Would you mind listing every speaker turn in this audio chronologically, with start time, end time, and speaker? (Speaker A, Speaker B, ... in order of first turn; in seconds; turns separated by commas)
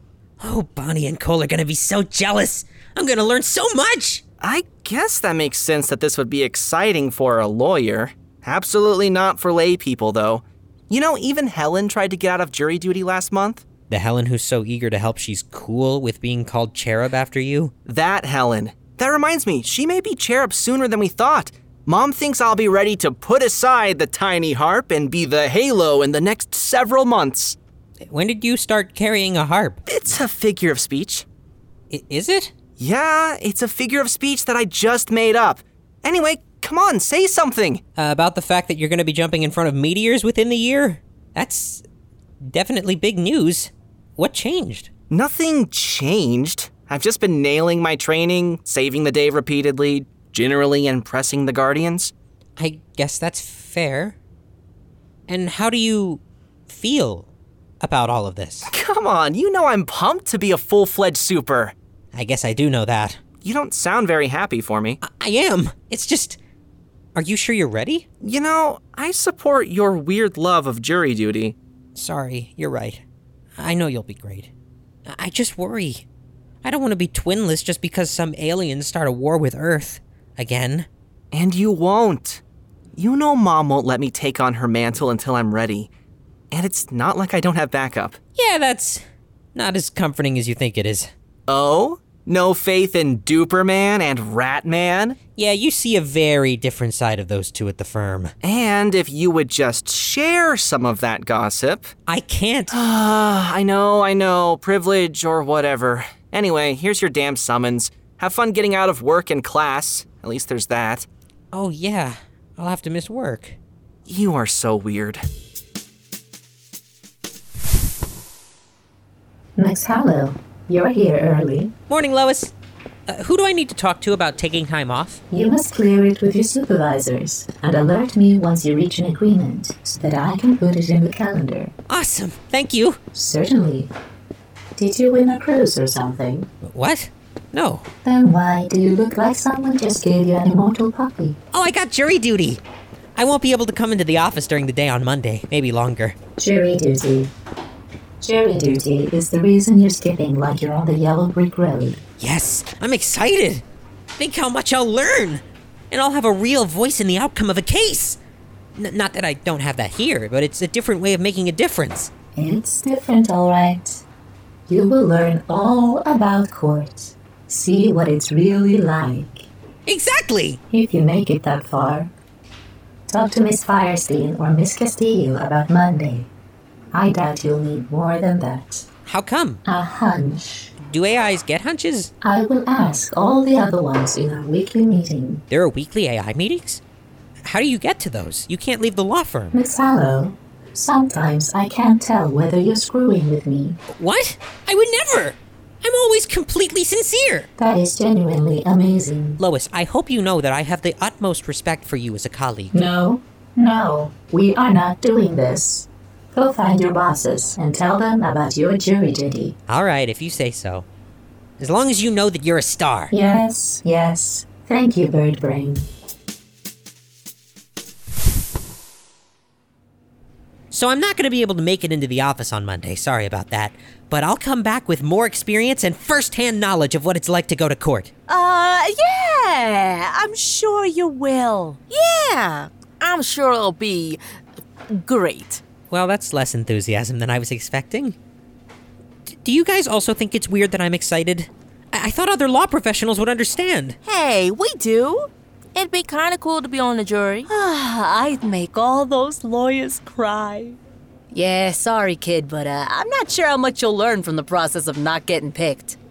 Speaker A: 0.4-4.2, Speaker B: 4.4-13.6, Speaker A: 13.9-17.7, Speaker B: 17.9-27.6, Speaker A: 28.0-29.8, Speaker B: 29.9-31.2, Speaker A: 31.9-32.5, Speaker B: 32.8-37.8, Speaker A: 38.0-41.8, Speaker A: 42.4-44.9, Speaker B: 45.1-52.1, Speaker A: 52.6-54.1, Speaker A: 55.3-57.3, Speaker A: 57.8-58.7, Speaker B: 58.7-61.7, Speaker A: 62.1-63.2, Speaker B: 63.4-65.0, Speaker A: 65.0-66.4, Speaker A: 67.1-68.0, Speaker B: 68.2-71.5, Speaker A: 71.9-73.0, Speaker A: 73.6-74.5, Speaker A: 75.1-76.0, Speaker A: 76.6-80.9, Speaker B: 81.3-82.4, Speaker B: 82.9-85.9, Speaker B: 86.5-88.2, Speaker A: 88.3-89.0, Speaker A: 89.5-91.1, Speaker B: 91.5-95.2, Speaker A: 95.4-98.3, Speaker B: 98.4-101.9, Speaker A: 102.1-102.8, Speaker B: 102.7-111.1, Speaker A: 111.5-113.6, Speaker B: 114.0-115.2, Speaker C: 119.5-121.7, Speaker A: 121.9-122.5, Speaker A: 123.1-125.2, Speaker C: 125.3-131.7, Speaker A: 131.9-133.0, Speaker C: 133.1-133.9, Speaker C: 134.8-136.5, Speaker A: 136.6-137.8, Speaker C: 138.0-141.4, Speaker A: 141.5-142.6, Speaker A: 143.2-146.2, Speaker C: 146.4-147.3, Speaker C: 148.2-152.0, Speaker A: 152.2-153.6, Speaker A: 154.2-158.2, Speaker A: 158.8-162.1, Speaker C: 162.3-164.0, Speaker C: 164.7-169.5, Speaker A: 169.8-170.6, Speaker C: 170.7-172.1, Speaker C: 173.1-176.3, Speaker C: 176.9-178.9, Speaker A: 179.1-179.6, Speaker C: 179.6-180.7, Speaker A: 180.9-182.1, Speaker C: 182.2-185.4, Speaker A: 185.5-186.8, Speaker A: 187.4-189.6, Speaker C: 189.5-193.8, Speaker A: 193.9-197.5, Speaker C: 197.6-199.4, Speaker A: 199.4-202.8, Speaker C: 202.7-209.6, Speaker A: 209.7-210.9, Speaker A: 211.6-213.1, Speaker C: 213.1-215.8, Speaker A: 220.7-228.1, Speaker D: 228.3-231.8, Speaker E: 231.9-234.2, Speaker E: 234.9-235.6, Speaker A: 235.9-238.2, Speaker A: 239.3-244.0, Speaker E: 244.0-247.5, Speaker D: 247.5-250.8, Speaker D: 251.3-256.0